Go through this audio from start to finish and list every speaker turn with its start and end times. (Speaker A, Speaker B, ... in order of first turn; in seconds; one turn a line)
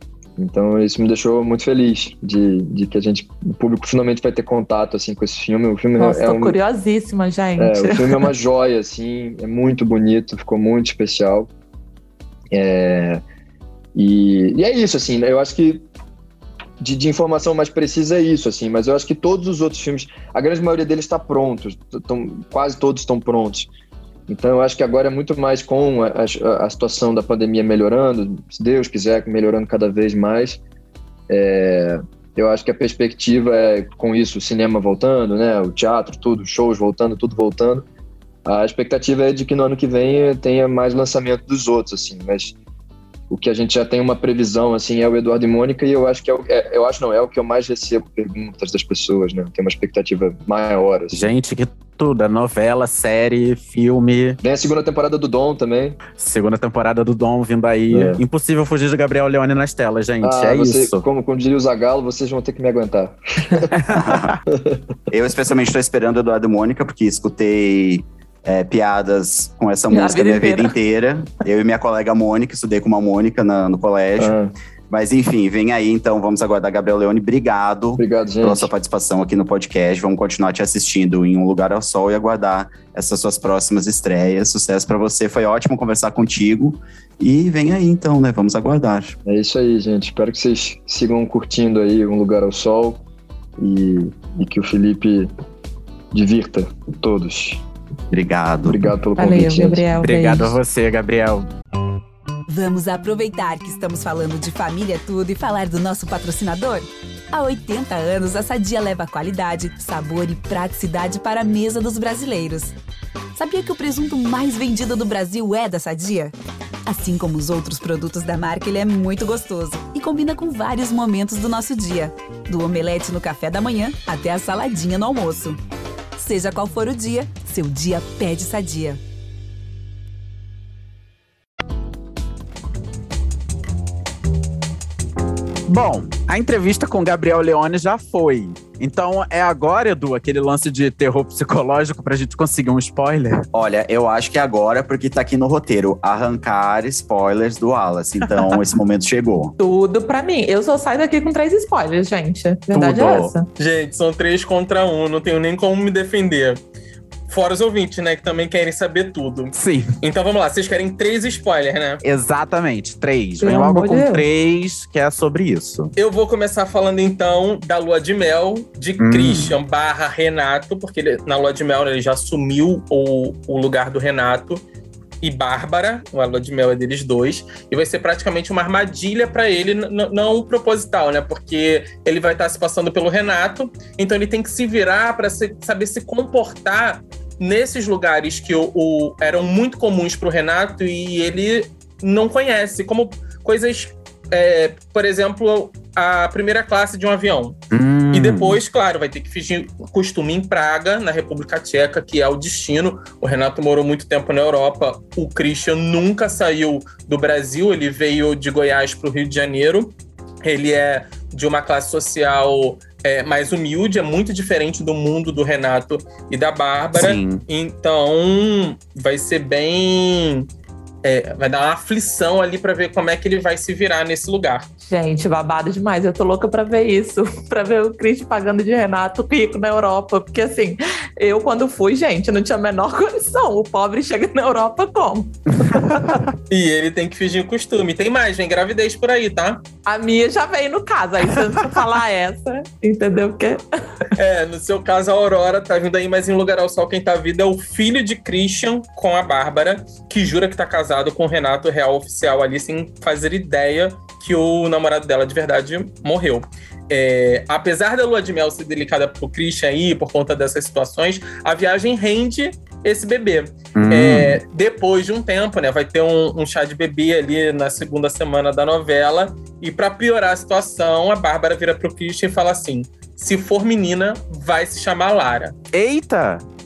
Speaker A: 0.4-6.6
Speaker B: 6.0-8.3
Speaker A: 7.6-11.5
Speaker A: 12.5-13.2
Speaker A: 13.9-15.8
Speaker A: 16.8-23.7
Speaker A: 24.3-30.6
Speaker A: 31.3-37.9
Speaker A: 38.5-42.5
Speaker A: 43.3-51.3
Speaker C: 51.1-54.4
Speaker A: 54.4-56.0
Speaker C: 56.1-61.0
Speaker A: 57.9-58.2
Speaker A: 60.2-63.7
Speaker C: 63.8-64.3
Speaker D: 63.9-64.3
Speaker A: 64.5-64.8
Speaker D: 65.1-74.3
Speaker B: 69.9-70.8
Speaker A: 74.2-74.5
Speaker D: 74.9-89.2
Speaker A: 78.0-78.7
Speaker A: 89.2-93.0
Speaker A: 93.6-95.3
Speaker A: 96.1-97.6
Speaker D: 98.1-98.9
Speaker A: 98.7-99.9
Speaker B: 99.2-100.6
Speaker C: 100.0-101.5
Speaker E: 102.5-112.7
Speaker E: 113.3-116.3
Speaker E: 116.9-125.6
Speaker E: 126.2-129.0
Speaker C: 135.7-143.4
Speaker D: 143.5-149.6
Speaker B: 149.6-153.5
Speaker C: 152.7-153.3
Speaker F: 153.6-156.6
Speaker F: 157.3-162.0
Speaker C: 159.6-160.0
Speaker C: 162.0-165.9
Speaker B: 163.4-164.3
Speaker F: 166.0-174.6
Speaker C: 169.0-169.6
Speaker F: 175.2-197.6
Speaker C: 197.7-198.6
Speaker F: 198.1-220.5
Speaker C: 216.9-217.4
Speaker F: 221.0-224.7
Speaker B: 224.8-236.2
Speaker C: 235.6-236.3
Speaker F: 236.5-239.6
Speaker B: 239.9-243.6
Speaker F: 244.2-275.5
Speaker C: 263.8-264.4
Speaker C: 275.7-276.4